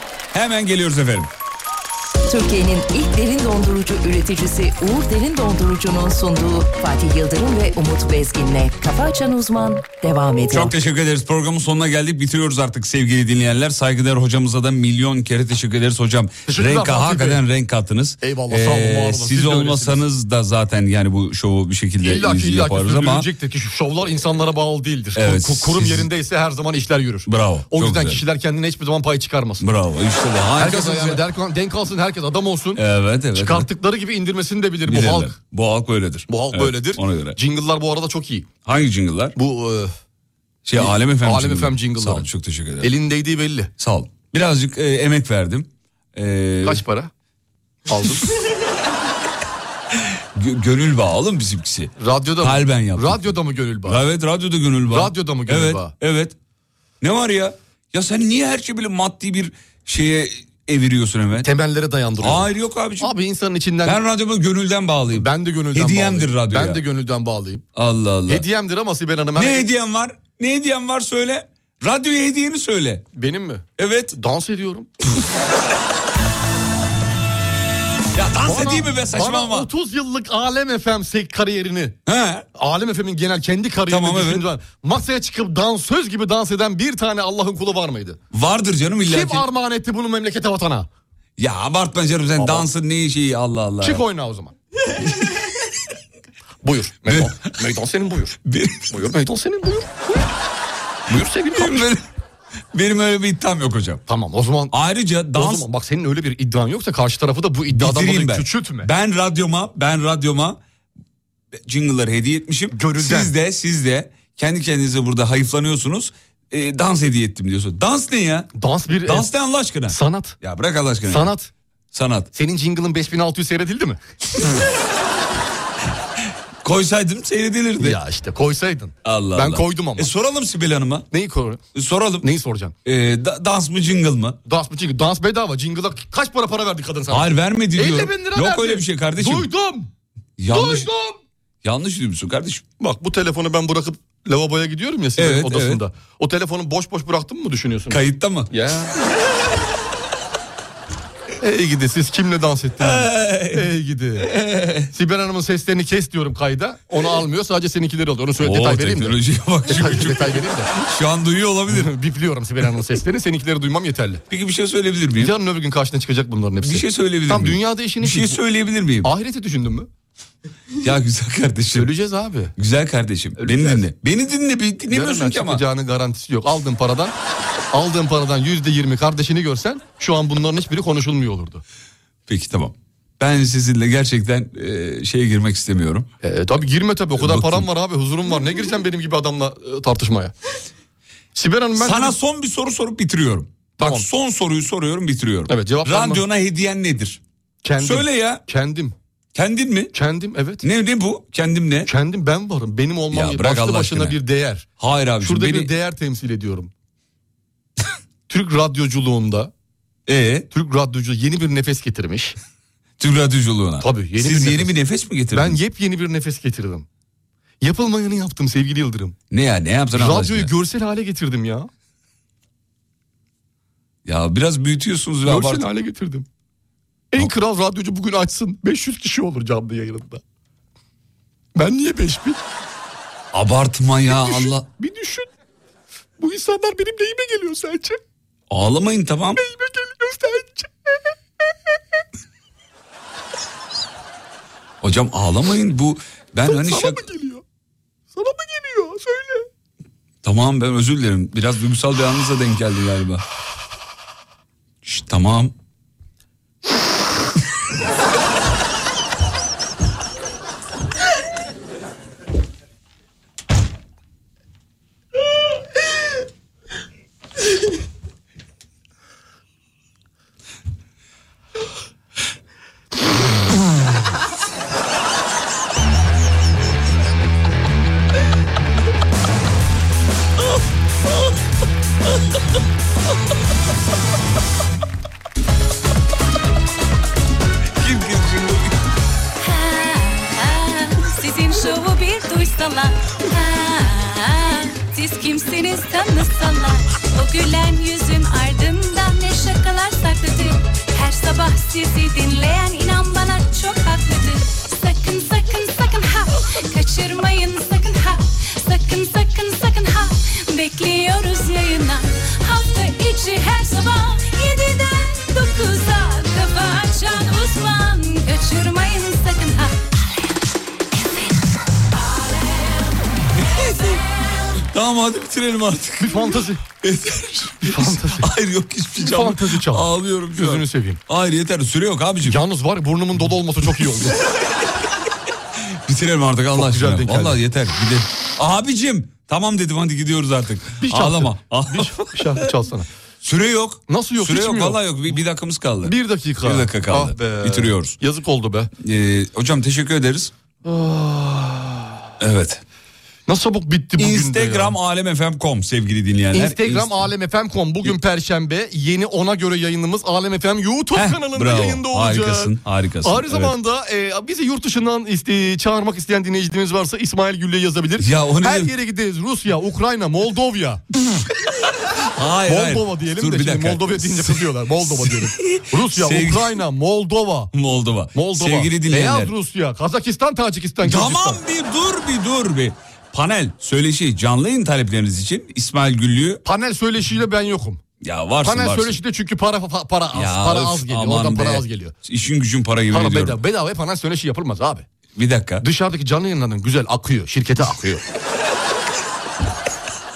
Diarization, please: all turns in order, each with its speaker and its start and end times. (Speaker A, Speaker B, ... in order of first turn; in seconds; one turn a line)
Speaker A: 0.3-1.3
Speaker B: 2.3-10.7
Speaker A: 10.5-23.3
Speaker C: 16.5-17.4
Speaker C: 18.2-20.0
Speaker C: 22.0-29.6
Speaker A: 25.1-26.1
Speaker A: 27.2-28.2
Speaker A: 29.6-31.2
Speaker C: 30.6-32.8
Speaker A: 32.8-33.7
Speaker C: 33.3-35.3
Speaker A: 34.8-37.4
Speaker C: 36.3-38.5
Speaker A: 38.6-39.4
Speaker C: 39.4-39.9
Speaker A: 40.6-42.9
Speaker C: 40.8-42.3
Speaker C: 42.8-43.7
Speaker A: 43.8-46.8
Speaker C: 46.6-47.1
Speaker C: 47.9-48.3
Speaker A: 50.0-53.2
Speaker C: 52.0-54.0
Speaker A: 53.8-56.3
Speaker C: 54.9-55.9
Speaker A: 57.0-61.5
Speaker C: 61.4-62.5
Speaker A: 62.2-63.1
Speaker C: 63.0-64.0
Speaker A: 63.8-66.8
Speaker C: 65.1-67.6
Speaker A: 67.7-68.4
Speaker C: 68.3-69.7
Speaker A: 69.3-73.0
Speaker C: 73.1-74.9
Speaker A: 73.8-74.2
Speaker A: 78.1-79.7
Speaker C: 78.4-82.0
Speaker A: 82.0-82.5
Speaker C: 82.5-88.2
Speaker A: 83.9-84.5
Speaker A: 88.3-89.5
Speaker C: 89.1-90.9
Speaker A: 91.4-94.0
Speaker C: 92.4-92.7
Speaker C: 93.8-94.5
Speaker C: 96.6-98.4
Speaker A: 97.1-97.4
Speaker A: 98.4-98.9
Speaker C: 98.9-100.2
Speaker C: 101.1-101.9
Speaker A: 101.1-102.0
Speaker A: 102.7-104.0
Speaker C: 104.1-104.7
Speaker A: 104.7-105.7
Speaker C: 105.3-108.9
Speaker A: 107.7-110.6
Speaker A: 111.5-118.5
Speaker C: 112.7-113.3
Speaker C: 118.6-119.3
Speaker A: 119.0-121.3
Speaker C: 119.9-120.3
Speaker C: 121.1-121.5
Speaker A: 121.9-122.3
Speaker C: 122.3-124.0
Speaker A: 126.6-128.0
Speaker C: 127.8-130.1
Speaker A: 129.0-131.1
Speaker C: 131.1-131.6
Speaker A: 131.7-132.3
Speaker C: 132.2-132.7
Speaker A: 132.8-134.4
Speaker C: 134.4-139.9
Speaker A: 137.1-139.5
Speaker A: 140.4-140.9
Speaker C: 140.5-141.2
Speaker A: 141.6-142.6
Speaker C: 142.8-149.0
Speaker A: 145.2-145.8
Speaker A: 147.9-148.5
Speaker C: 151.4-154.3
Speaker A: 152.8-154.9
Speaker C: 154.9-159.2
Speaker A: 158.4-161.9
Speaker C: 159.7-160.7
Speaker C: 161.7-164.2
Speaker A: 164.3-165.3
Speaker C: 165.2-168.4
Speaker A: 166.6-169.1
Speaker C: 169.0-169.9
Speaker A: 170.8-171.9
Speaker C: 171.7-172.5
Speaker A: 172.6-175.6
Speaker C: 173.4-173.8
Speaker C: 174.9-177.1
Speaker C: 177.7-181.6
Speaker A: 182.3-186.1
Speaker C: 186.2-190.3
Speaker A: 187.2-187.7
Speaker C: 191.3-192.1
Speaker A: 191.8-197.2
Speaker C: 193.8-194.1
Speaker C: 195.5-196.2
Speaker C: 197.6-198.9
Speaker A: 197.8-198.4
Speaker A: 199.3-199.9
Speaker C: 199.9-200.6
Speaker A: 200.6-201.9
Speaker C: 201.8-204.7
Speaker A: 203.1-204.2
Speaker A: 204.8-205.7
Speaker C: 205.2-206.7
Speaker C: 208.3-209.5
Speaker A: 210.1-210.5
Speaker C: 210.5-212.4
Speaker A: 213.0-215.6
Speaker C: 213.8-214.7
Speaker C: 215.3-216.8
Speaker C: 217.6-219.2
Speaker A: 219.3-220.5
Speaker C: 219.9-221.7
Speaker A: 224.0-225.7
Speaker C: 225.2-226.3
Speaker C: 227.1-230.2
Speaker C: 231.5-232.4
Speaker A: 233.3-234.7
Speaker C: 234.1-235.3
Speaker C: 236.2-238.0
Speaker A: 238.5-239.4
Speaker C: 239.3-241.1
Speaker A: 244.8-247.1
Speaker C: 246.5-247.4
Speaker C: 248.1-249.5
Speaker A: 250.2-253.2
Speaker A: 254.8-255.5
Speaker A: 287.8-288.7
Speaker D: 289.4-319.7
Speaker A: 323.5-324.0
Speaker A: 324.6-332.4
Speaker C: 326.0-326.6
Speaker C: 327.6-328.3
Speaker C: 329.0-331.0
Speaker C: 332.2-334.2
Speaker A: 334.3-334.7
Speaker A: 335.6-342.5
Speaker C: 336.5-337.4
Speaker C: 340.8-342.9
Speaker A: 343.2-347.9
Speaker C: 343.9-344.8
Speaker C: 345.8-348.7
Speaker A: 348.8-350.3
Speaker C: 350.6-351.9
Speaker A: 352.2-352.6
Speaker C: 353.3-354.8
Speaker A: 354.0-357.1
Speaker C: 356.3-362.5
Speaker A: 360.9-363.5
Speaker C: 363.0-370.8
Speaker A: 368.0-368.7
Speaker A: 372.1-376.6
Speaker C: 372.4-377.5
Speaker A: 377.5-379.3
Speaker C: 378.1-381.4
Speaker A: 380.8-386.4
Speaker C: 386.4-387.8
Speaker A: 388.0-389.0
Speaker C: 388.4-391.9
Speaker A: 390.1-393.4
Speaker C: 392.9-394.9
Speaker A: 395.1-395.6
Speaker C: 395.6-398.0